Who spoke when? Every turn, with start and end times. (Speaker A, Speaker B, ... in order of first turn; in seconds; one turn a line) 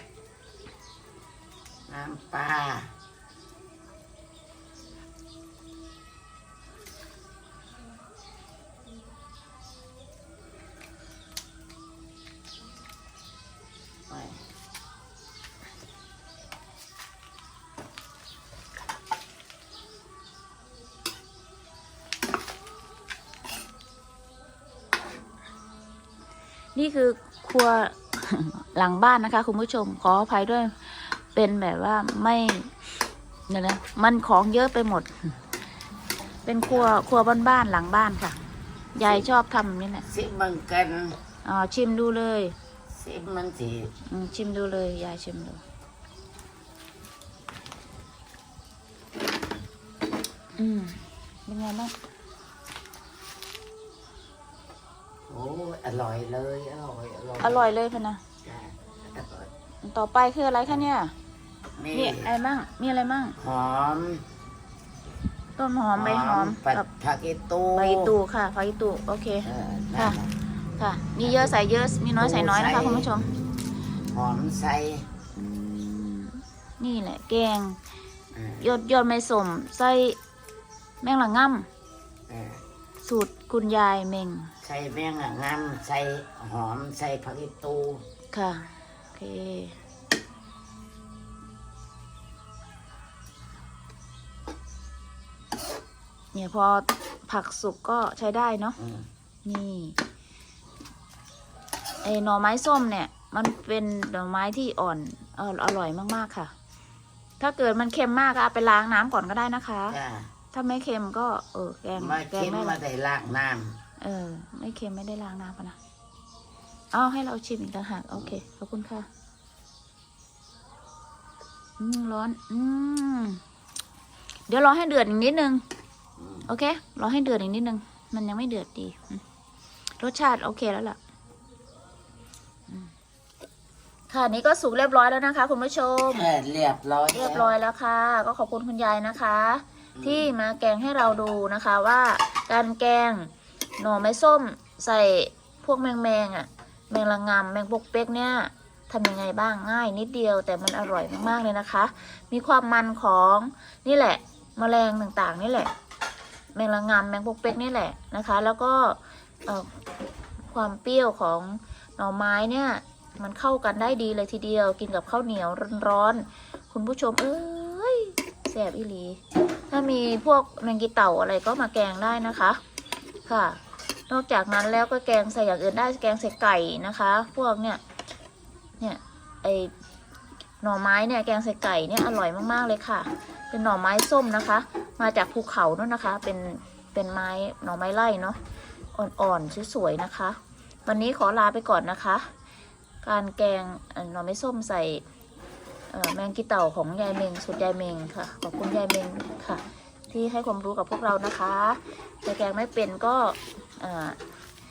Speaker A: 1.9-2.9
Speaker A: 14.1-14.4
Speaker B: 26.7-32.7
Speaker B: 33.5-35.4
Speaker B: 36.5-38.4
Speaker A: 36.6-37.0
Speaker B: 38.9-40.1
Speaker A: 40.1-41.2
Speaker B: 41.4-42.5
Speaker A: 42.9-43.9
Speaker B: 44.1-45.6
Speaker B: 50.5-51.9
Speaker A: 55.3-57.7
Speaker B: 57.4-58.2
Speaker A: 58.4-59.5
Speaker B: 59.8-61.1
Speaker A: 61.8-62.3
Speaker B: 61.9-63.4
Speaker A: 63.4-64.2
Speaker B: 65.6-66.9
Speaker A: 66.0-68.1
Speaker B: 67.7-70.2
Speaker A: 69.4-70.3
Speaker B: 70.8-73.3
Speaker A: 71.2-71.5
Speaker A: 72.2-73.1
Speaker A: 74.1-75.1
Speaker B: 75.3-77.8
Speaker A: 78.3-78.7
Speaker B: 78.6-80.2
Speaker B: 81.0-81.7
Speaker A: 82.3-82.6
Speaker B: 83.0-84.5
Speaker A: 84.6-88.0
Speaker B: 88.3-89.8
Speaker B: 96.3-98.8
Speaker A: 98.8-99.1
Speaker B: 99.4-100.0
Speaker B: 102.0-106.5
Speaker B: 107.4-110.0
Speaker A: 109.9-110.3
Speaker B: 110.5-112.8
Speaker A: 112.0-113.8
Speaker B: 114.0-115.8
Speaker B: 116.9-119.1
Speaker B: 121.8-123.4
Speaker B: 124.5-125.6
Speaker A: 126.2-126.5
Speaker B: 126.5-129.2
Speaker B: 130.0-131.0
Speaker B: 134.1-136.3
Speaker A: 136.1-137.5
Speaker B: 137.1-155.7
Speaker A: 140.0-140.3
Speaker B: 156.5-159.8
Speaker B: 160.5-172.6
Speaker B: 173.3-177.8
Speaker B: 178.8-179.7
Speaker B: 180.6-188.4
Speaker B: 188.9-192.3
Speaker B: 193.0-195.0
Speaker B: 195.9-204.2